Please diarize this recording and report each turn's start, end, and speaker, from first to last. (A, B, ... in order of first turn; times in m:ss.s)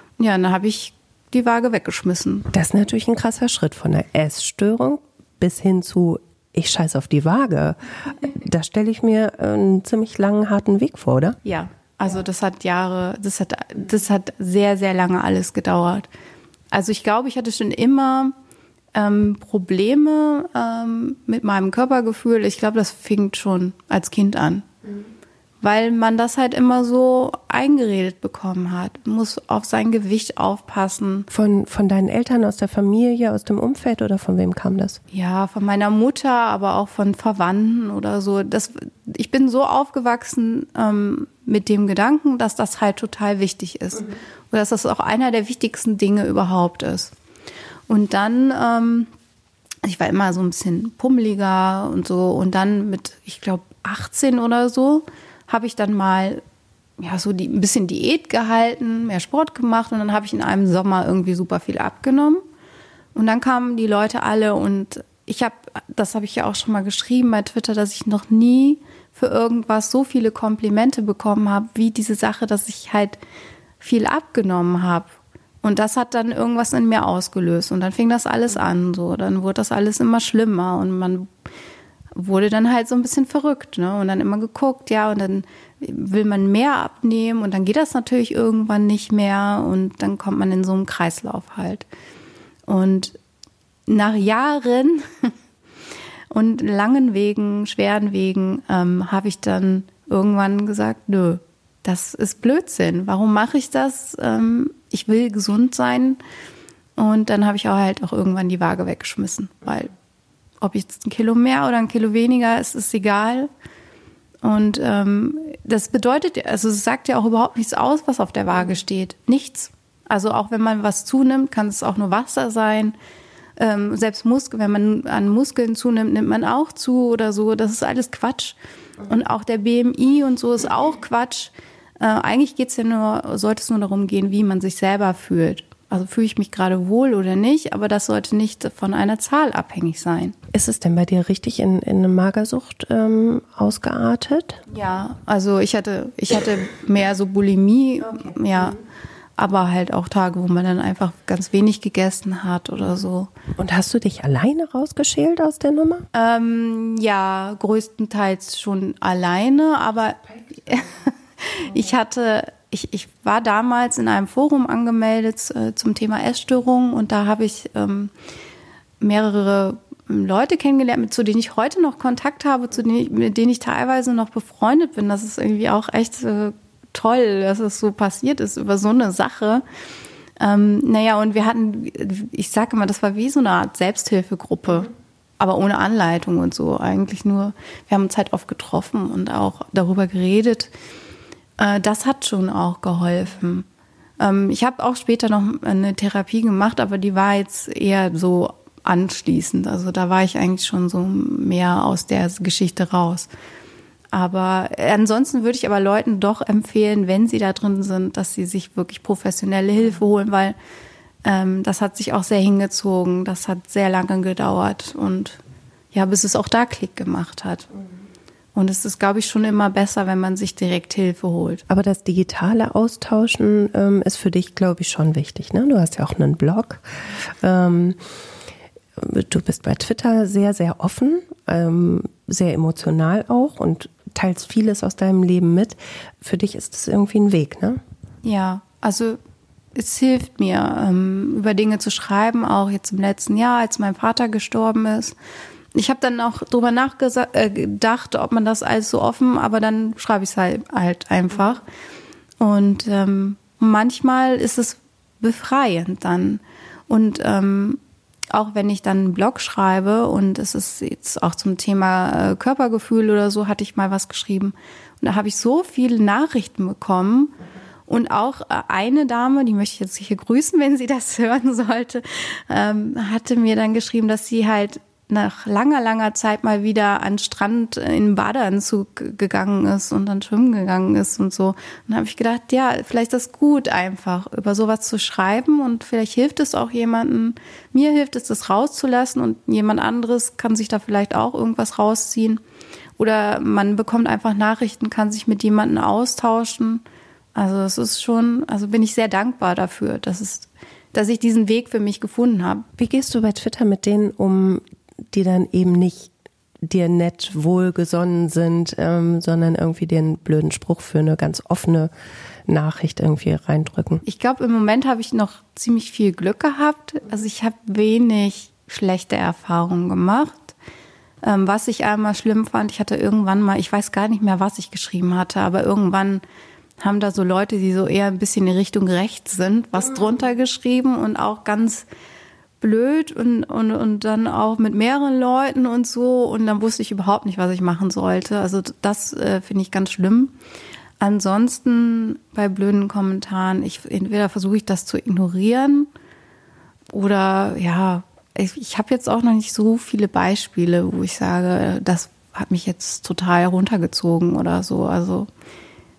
0:00.2-0:02.5 A
0:02.5-0:11.4 B
0:11.4-0:16.1 A
0:16.7-0:18.3 A
0:18.9-0:24.7 A
0:25.6-0:31.3 A
0:31.3-0:35.0 B
0:35.1-0:47.1 A
0:47.9-0:49.1 A
0:49.8-0:56.4 A
0:57.0-1:02.4 A
1:03.1-1:13.2 A
1:13.8-1:15.1 A
1:15.6-1:21.3 A
1:22.2-1:31.9 A
1:32.7-1:33.2 A
1:33.9-1:35.3 A
1:36.3-1:46.2 A
1:47.0-1:49.9 A
1:50.6-1:53.5 A
1:54.4-2:03.0 A
2:03.6-2:20.4 A
2:20.5-2:24.6 B
2:24.7-2:28.8 A
2:29.4-2:33.3 A
2:33.6-2:36.1 B
2:36.1-2:48.1 A
2:49.0-2:59.6 A
3:00.4-3:10.7 A
3:11.6-3:13.7 A
3:14.2-3:23.3 A
3:24.1-3:30.6 A
3:31.2-3:35.4 A
3:35.9-3:37.7 A
3:38.6-3:41.6 A
3:41.7-3:46.8 B
3:47.4-3:48.0 B
3:49.0-3:57.8 B
3:58.2-3:59.2 A
3:59.8-4:05.2 A
4:05.7-4:11.6 A
4:12.4-4:17.8 A
4:18.3-4:27.4 A
4:27.9-4:52.4 A
4:53.0-4:56.8 A
4:57.4-5:02.7 A
5:02.8-5:06.1 B
5:06.6-5:11.9 B
5:12.5-5:14.0 B
5:14.0-5:20.6 A
5:21.2-5:26.2 A
5:26.8-5:31.9 A
5:32.6-5:40.4 A
5:41.0-5:45.9 A
5:46.9-5:55.3 A